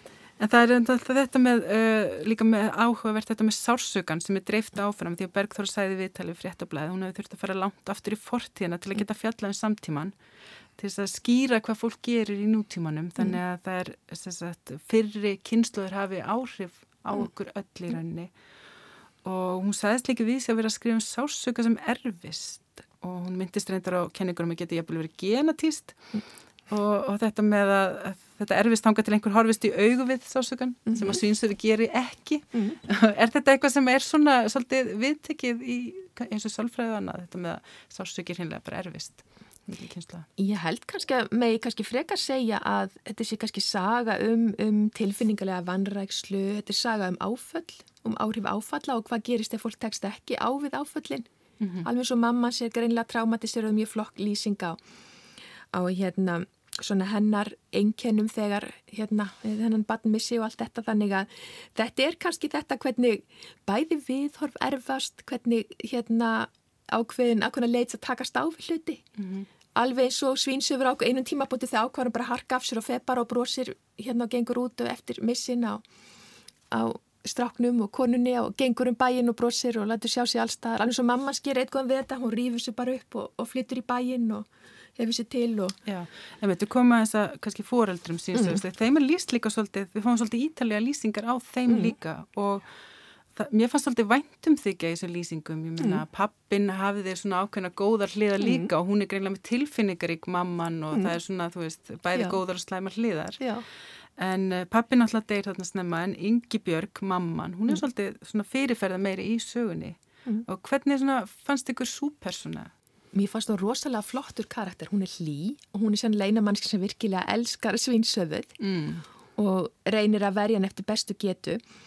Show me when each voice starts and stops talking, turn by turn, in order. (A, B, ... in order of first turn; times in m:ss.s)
0:00.4-0:10.1 A
0:10.8-0:18.3 A
0:19.2-0:26.1 A
0:26.7-0:40.3 A
0:30.9-0:31.2 B
0:40.4-0:51.3 B
0:51.6-0:51.9 A
0:51.8-0:54.8 B
0:55.7-1:09.0 B
1:09.2-1:09.5 A
1:09.8-1:15.8 B
1:16.7-1:25.8 B
1:25.9-1:32.6 A
1:28.4-1:28.6 B
1:31.7-1:31.9 B
1:33.4-1:43.4 A
1:38.4-1:38.7 B
1:43.4-1:43.6 B
1:44.2-1:52.7 A
1:53.1-1:58.5 B
1:58.6-1:59.0 A
1:59.4-2:01.6 B